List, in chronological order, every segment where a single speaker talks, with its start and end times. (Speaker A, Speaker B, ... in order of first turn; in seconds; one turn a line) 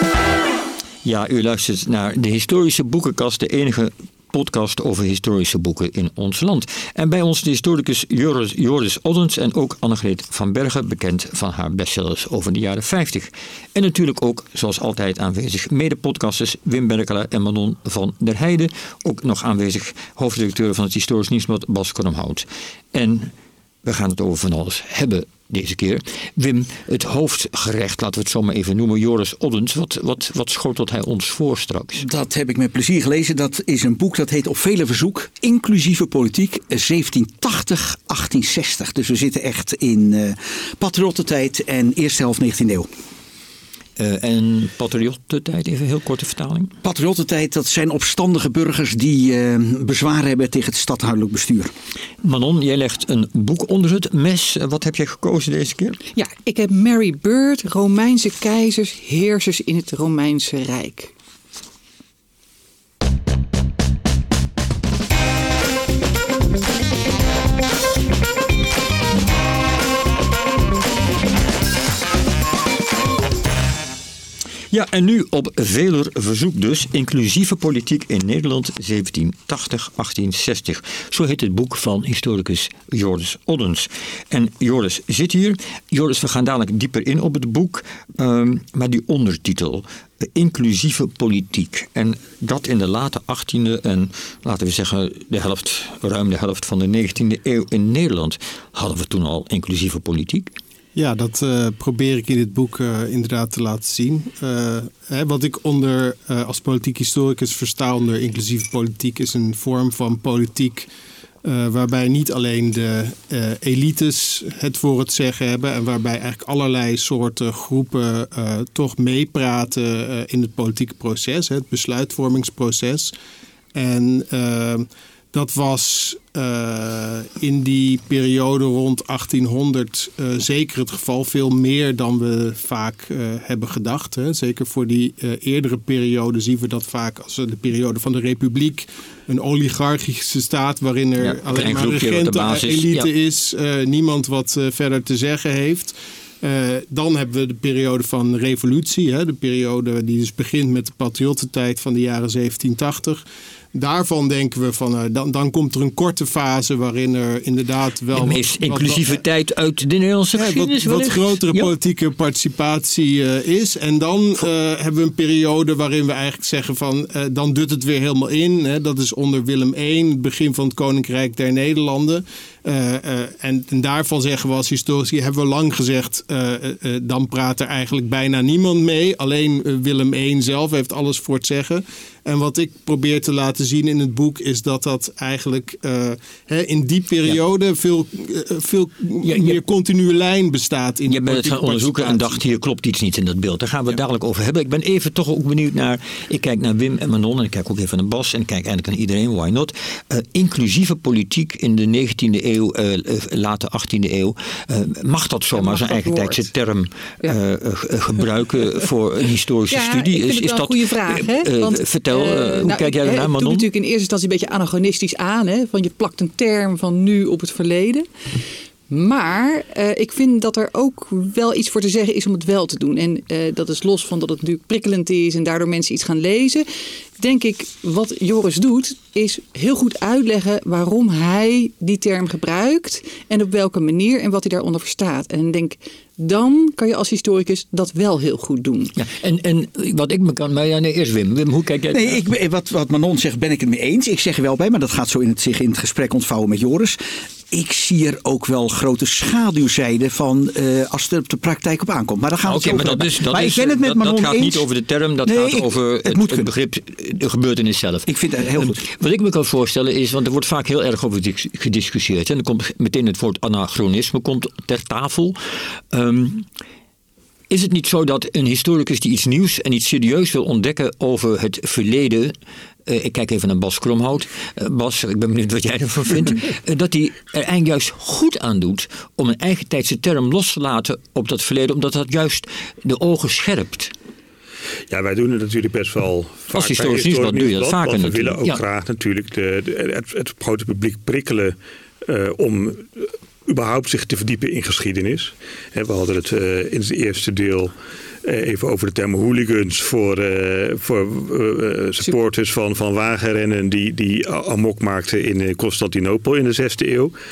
Speaker A: 1.0-23.3
Speaker A: 23.8-32.0
Speaker B: 32.0-42.9
Speaker A: 44.0-46.7
Speaker B: 46.8-51.7
Speaker A: 52.2-56.0
Speaker C: 56.1-61.1
Speaker A: 74.7-100.5
Speaker D: 100.9-110.9
Speaker D: 111.4-123.1
Speaker D: 123.7-153.2
Speaker A: 141.2-143.1
Speaker D: 153.7-159.2
Speaker A: 158.1-161.7
Speaker D: 160.3-192.4
Speaker A: 189.2-189.6
Speaker A: 191.1-213.7
Speaker C: 205.5-206.4
Speaker C: 209.7-218.1
Speaker C: 218.9-226.7
Speaker C: 227.2-238.9
Speaker A: 239.0-242.2
Speaker B: 241.9-254.6
Speaker A: 252.4-265.4
Speaker B: 255.2-256.5
Speaker B: 258.1-258.8
Speaker A: 265.9-266.5
Speaker A: 267.5-272.3
Speaker A: 272.9-283.9
Speaker E: 284.9-297.7
Speaker A: 286.5-288.6
Speaker E: 298.2-307.1